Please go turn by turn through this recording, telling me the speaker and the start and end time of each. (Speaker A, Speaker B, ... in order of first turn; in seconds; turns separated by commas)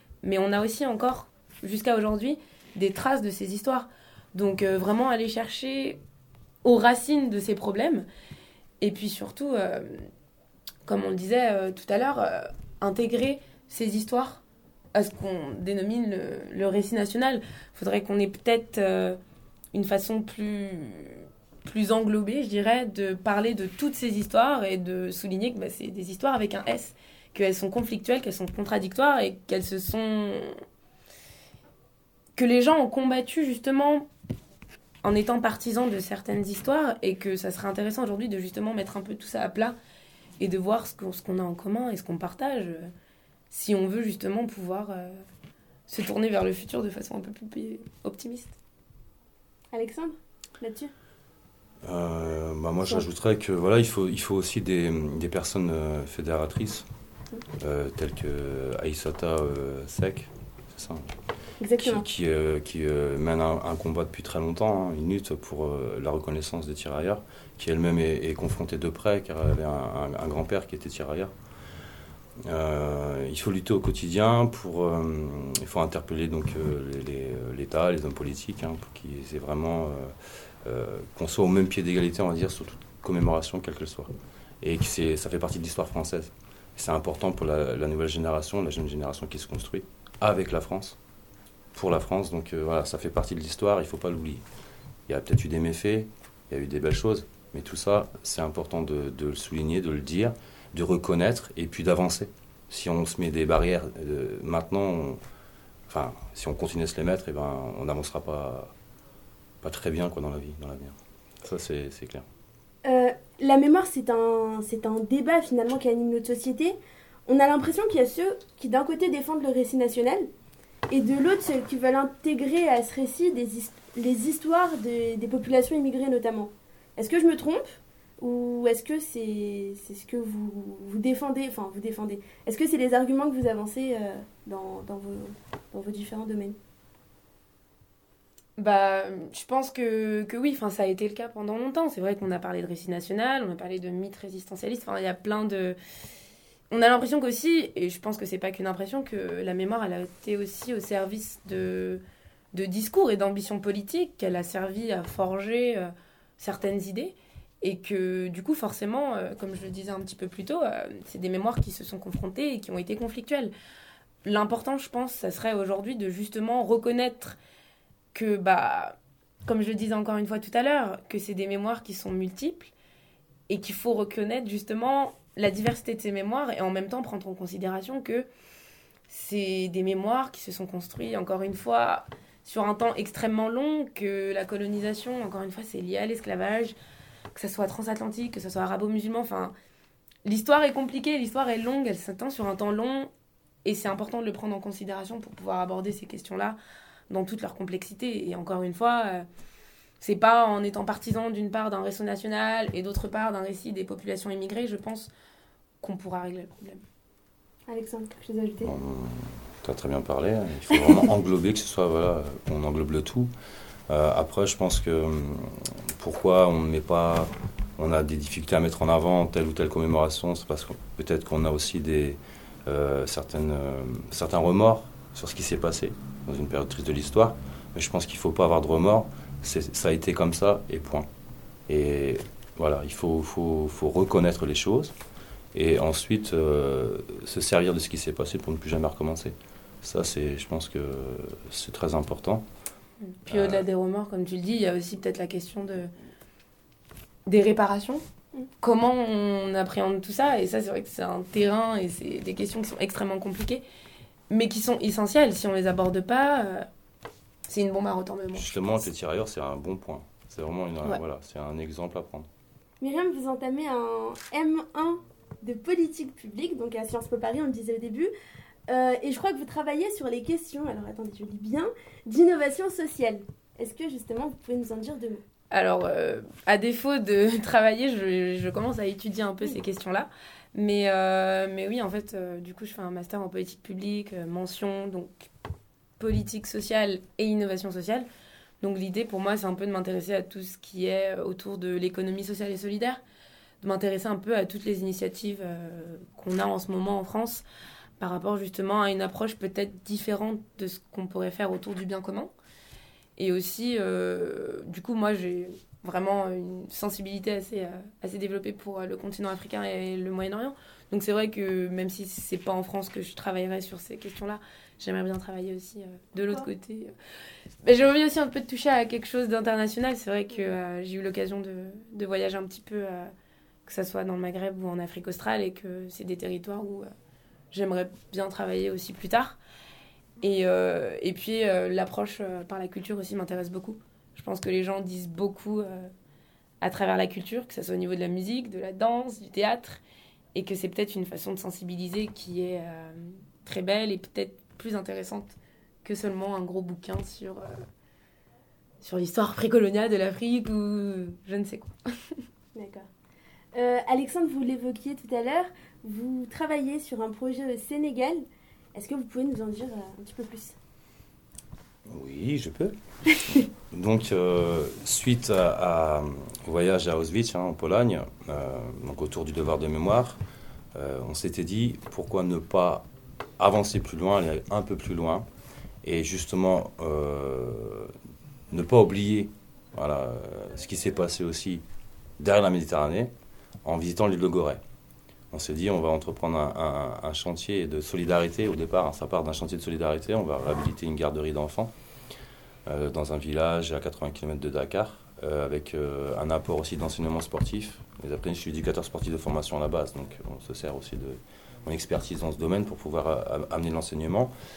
Speaker A: 0.2-6.0, Speaker A: 6.6-8.1, Speaker A: 8.8-10.1, Speaker A: 10.8-14.4, Speaker A: 14.9-19.2, Speaker A: 19.7-30.6, Speaker A: 32.4-34.1, Speaker A: 35.0-39.8, Speaker A: 40.4-42.9, Speaker A: 43.5-45.2, Speaker A: 45.9-48.5, Speaker B: 49.7-50.9, Speaker C: 51.8-56.9, Speaker C: 57.6-61.1, Speaker B: 61.6-62.0, Speaker C: 61.8-71.3, Speaker C: 72.4-91.0, Speaker C: 91.7-94.4, Speaker C: 95.1-105.2, Speaker C: 105.9-108.7, Speaker C: 109.6-112.2, Speaker B: 112.8-116.8, Speaker B: 117.3-120.3, Speaker B: 120.9-136.6, Speaker A: 138.6-145.8, Speaker A: 146.7-152.0, Speaker A: 152.5-163.5, Speaker A: 164.2-167.4, Speaker A: 168.1-172.7, Speaker A: 173.5-178.3, Speaker A: 179.1-186.7, Speaker A: 187.3-189.5, Speaker A: 190.2-193.1, Speaker A: 193.6-196.6, Speaker A: 197.1-199.2, Speaker A: 200.0-205.1, Speaker A: 205.8-206.8, Speaker B: 207.7-208.7, Speaker C: 208.6-213.3, Speaker C: 213.9-231.1, Speaker C: 231.7-234.9, Speaker C: 235.5-242.4, Speaker A: 243.1-245.9, Speaker C: 243.2-243.6, Speaker A: 247.2-248.0, Speaker A: 248.6-253.6, Speaker A: 254.3-256.7, Speaker A: 257.5-258.6, Speaker C: 258.3-262.3, Speaker B: 262.8-268.1, Speaker B: 268.7-275.2, Speaker A: 275.5-285.3, Speaker A: 286.0-288.1, Speaker A: 288.6-293.0, Speaker A: 293.6-297.4, Speaker A: 298.0-302.3, Speaker A: 303.2-316.9, Speaker B: 316.2-316.5, Speaker A: 317.6-323.1, Speaker A: 323.6-326.9, Speaker A: 327.5-329.4, Speaker A: 330.2-335.9, Speaker A: 336.6-339.8, Speaker A: 340.3-347.6, Speaker A: 348.8-352.2, Speaker B: 352.6-352.9, Speaker B: 353.5-358.2, Speaker B: 358.7-360.5, Speaker C: 361.9-362.8, Speaker C: 363.3-370.2, Speaker C: 370.7-372.9, Speaker C: 373.4-375.3, Speaker C: 375.8-377.9, Speaker C: 378.5-381.6, Speaker C: 382.2-383.1, Speaker C: 383.6-384.6, Speaker C: 385.3-391.7, Speaker C: 392.6-404.3